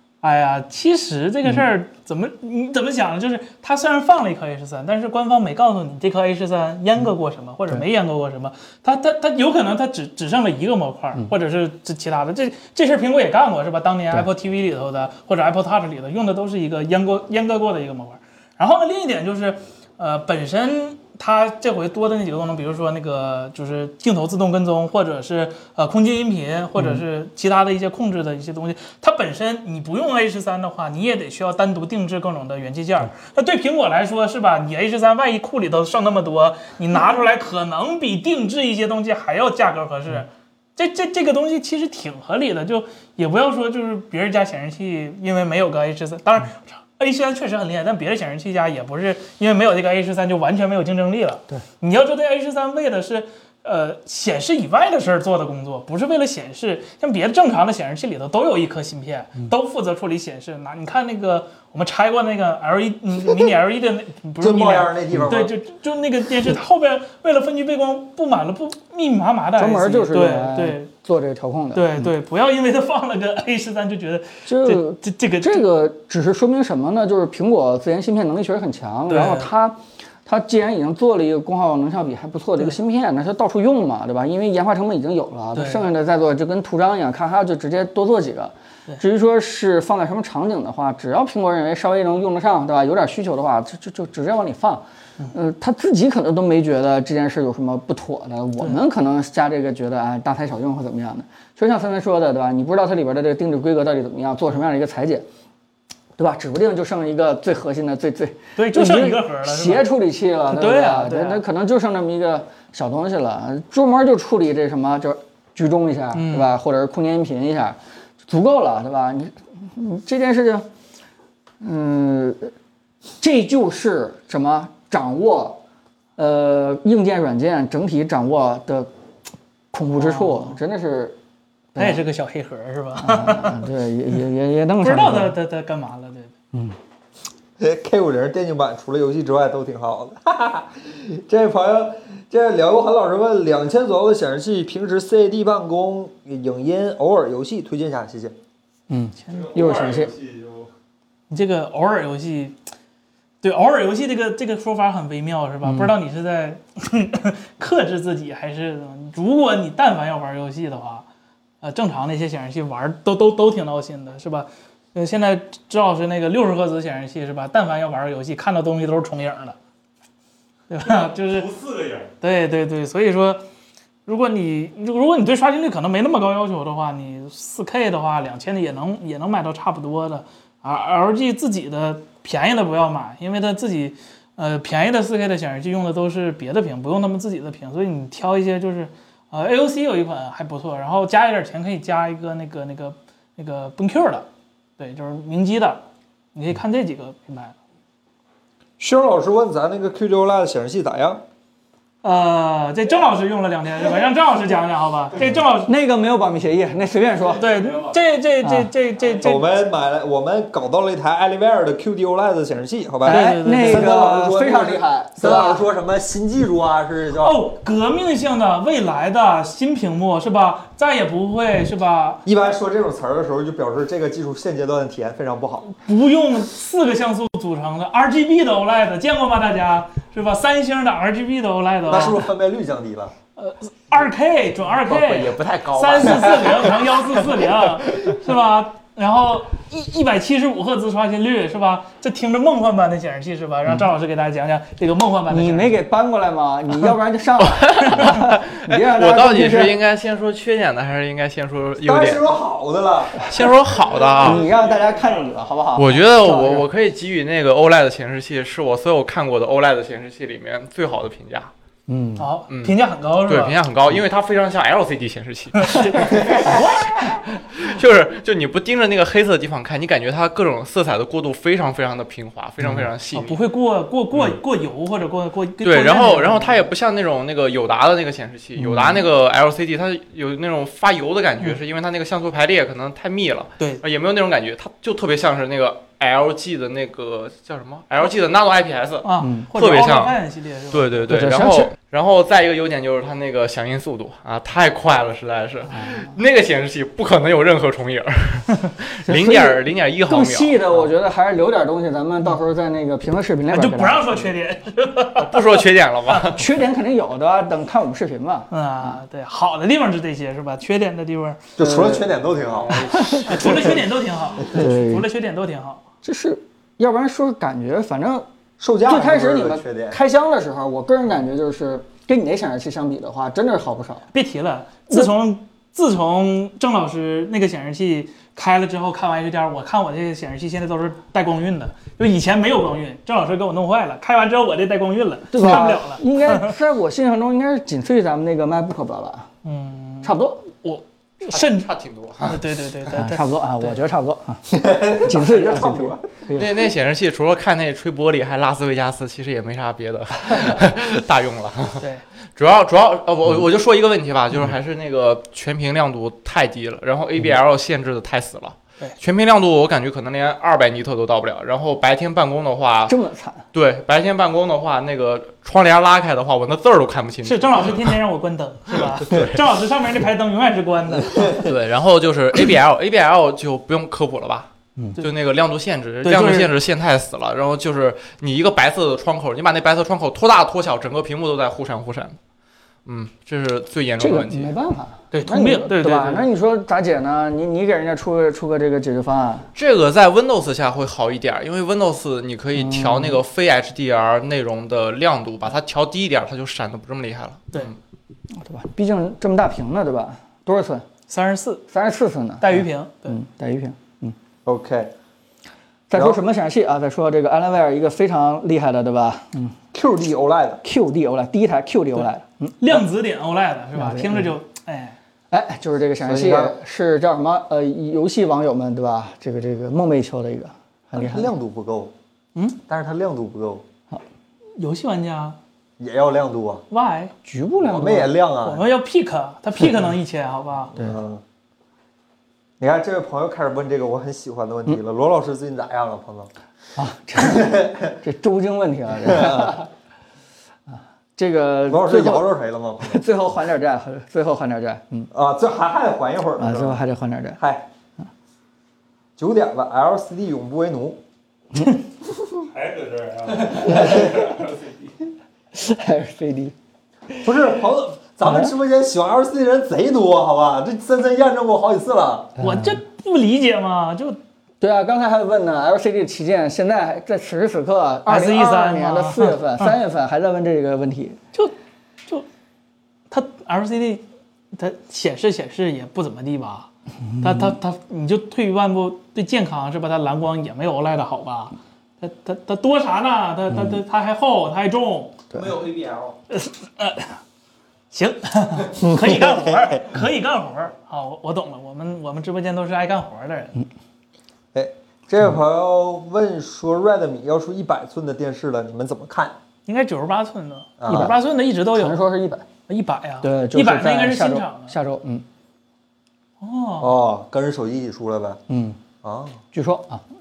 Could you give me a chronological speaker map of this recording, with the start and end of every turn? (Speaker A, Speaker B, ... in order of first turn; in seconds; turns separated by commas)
Speaker A: 0.2-70.9, Speaker B: 26.8-27.0, Speaker C: 64.4-65.5, Speaker B: 69.6-72.1, Speaker A: 71.7-75.7, Speaker B: 74.5-105.2, Speaker A: 79.1-79.5, Speaker A: 85.5-85.8, Speaker B: 106.2-120.7, Speaker A: 108.5-109.9, Speaker A: 110.5-111.4, Speaker A: 116.1-116.5, Speaker B: 121.6-122.5, Speaker B: 123.2-125.6, Speaker B: 126.2-128.9, Speaker B: 129.7-131.2, Speaker A: 129.9-130.6, Speaker B: 131.7-132.0, Speaker A: 131.8-133.7, Speaker B: 133.0-135.3, Speaker A: 134.8-136.3, Speaker C: 137.6-148.3, Speaker B: 148.9-150.1, Speaker D: 149.3-150.7, Speaker A: 151.3-152.6, Speaker A: 153.4-161.0, Speaker B: 155.6-155.9, Speaker A: 161.6-169.6, Speaker A: 170.7-171.5, Speaker D: 171.3-172.1, Speaker A: 172.2-173.4, Speaker A: 174.1-194.2, Speaker A: 194.8-195.8, Speaker A: 196.3-197.6, Speaker C: 198.8-201.2, Speaker A: 202.0-205.7, Speaker B: 205.7-207.4, Speaker D: 207.3-208.0, Speaker A: 207.4-209.5, Speaker B: 208.4-208.7, Speaker D: 209.0-209.2, Speaker C: 209.2-217.4, Speaker A: 213.0-214.0, Speaker B: 213.1-215.6, Speaker A: 217.2-222.2, Speaker C: 222.2-225.7, Speaker A: 225.7-232.3, Speaker C: 231.8-233.1, Speaker A: 233.4-245.8, Speaker E: 234.8-236.5, Speaker B: 245.3-249.8, Speaker E: 247.4-252.3, Speaker C: 251.8-253.2, Speaker E: 253.2-254.4, Speaker D: 253.9-255.0, Speaker B: 254.2-256.6, Speaker E: 255.8-261.5, Speaker B: 261.9-262.3, Speaker A: 262.2-263.6, Speaker E: 262.5-273.4, Speaker A: 265.6-267.1, Speaker A: 273.1-276.6, Speaker E: 275.6-290.2, Speaker B: 278.6-279.0, Speaker A: 289.0-291.1, Speaker B: 289.2-289.5, Speaker E: 290.7-300.6, Speaker B: 291.1-291.7, Speaker B: 295.7-296.2, Speaker B: 299.1-304.3, Speaker A: 303.5-306.4, Speaker E: 305.1-306.4, Speaker B: 306.3-309.0, Speaker A: 308.5-311.4, Speaker C: 311.6-312.8, Speaker B: 311.6-312.1, Speaker E: 312.6-313.6, Speaker B: 312.7-313.7, Speaker A: 313.2-315.8, Speaker B: 314.4-315.1, Speaker B: 316.0-318.2, Speaker C: 318.6-320.0, Speaker B: 318.9-324.0, Speaker A: 324.1-336.5, Speaker B: 335.3-339.3, Speaker A: 339.4-341.7, Speaker B: 340.0-340.5, Speaker E: 341.3-342.4, Speaker A: 342.2-343.8, Speaker B: 342.9-346.6, Speaker C: 344.5-346.1, Speaker E: 346.4-362.9, Speaker B: 362.9-363.4, Speaker E: 363.5-367.9, Speaker A: 367.2-371.4, Speaker E: 368.8-369.4, Speaker E: 371.3-382.2, Speaker A: 376.0-376.5, Speaker E: 382.9-384.5, Speaker B: 384.0-389.5, Speaker A: 385.1-386.3, Speaker E: 389.5-397.7, Speaker B: 392.6-393.2, Speaker B: 398.3-400.9, Speaker A: 401.1-401.6, Speaker B: 401.7-404.1, Speaker A: 402.4-403.1, Speaker C: 404.4-404.9, Speaker B: 405.9-409.6, Speaker C: 405.9-406.2, Speaker C: 409.7-410.6, Speaker B: 410.6-412.7, Speaker A: 412.6-414.9, Speaker B: 413.7-414.3, Speaker B: 415.3-421.3, Speaker C: 416.0-416.6, Speaker C: 420.9-421.9, Speaker C: 422.7-423.6, Speaker A: 424.6-425.4, Speaker C: 425.8-426.6, Speaker A: 426.7-427.1, Speaker B: 427.2-428.1, Speaker C: 427.6-428.7, Speaker A: 428.4-430.8, Speaker C: 430.7-431.2, Speaker C: 432.6-436.3, Speaker B: 436.8-439.7, Speaker C: 437.2-437.9, Speaker C: 439.0-439.6, Speaker B: 441.1-442.3, Speaker C: 441.7-443.0, Speaker B: 442.8-445.1, Speaker C: 445.1-446.8, Speaker B: 446.4-447.4, Speaker C: 447.4-447.7, Speaker C: 449.2-451.0, Speaker D: 452.5-454.9, Speaker C: 453.6-454.0, Speaker B: 453.6-454.0, Speaker B: 455.5-456.5, Speaker C: 457.2-462.4, Speaker B: 458.2-458.5, Speaker B: 462.4-462.8, Speaker A: 462.4-464.2, Speaker B: 464.6-471.2, Speaker A: 468.1-469.8, Speaker A: 473.1-476.7, Speaker B: 477.1-477.6, Speaker A: 477.2-485.2, Speaker B: 483.5-483.8, Speaker D: 485.3-486.1, Speaker C: 485.6-486.1, Speaker A: 486.3-487.2, Speaker A: 487.9-493.6, Speaker C: 488.7-489.9, Speaker C: 494.5-499.4, Speaker A: 499.6-502.0, Speaker C: 500.8-501.1, Speaker B: 500.9-501.1, Speaker B: 501.7-502.5, Speaker A: 502.7-504.7, Speaker B: 503.2-505.2, Speaker A: 506.4-506.9, Speaker C: 506.8-508.4, Speaker B: 508.5-508.8, Speaker C: 509.0-509.4, Speaker B: 509.5-510.0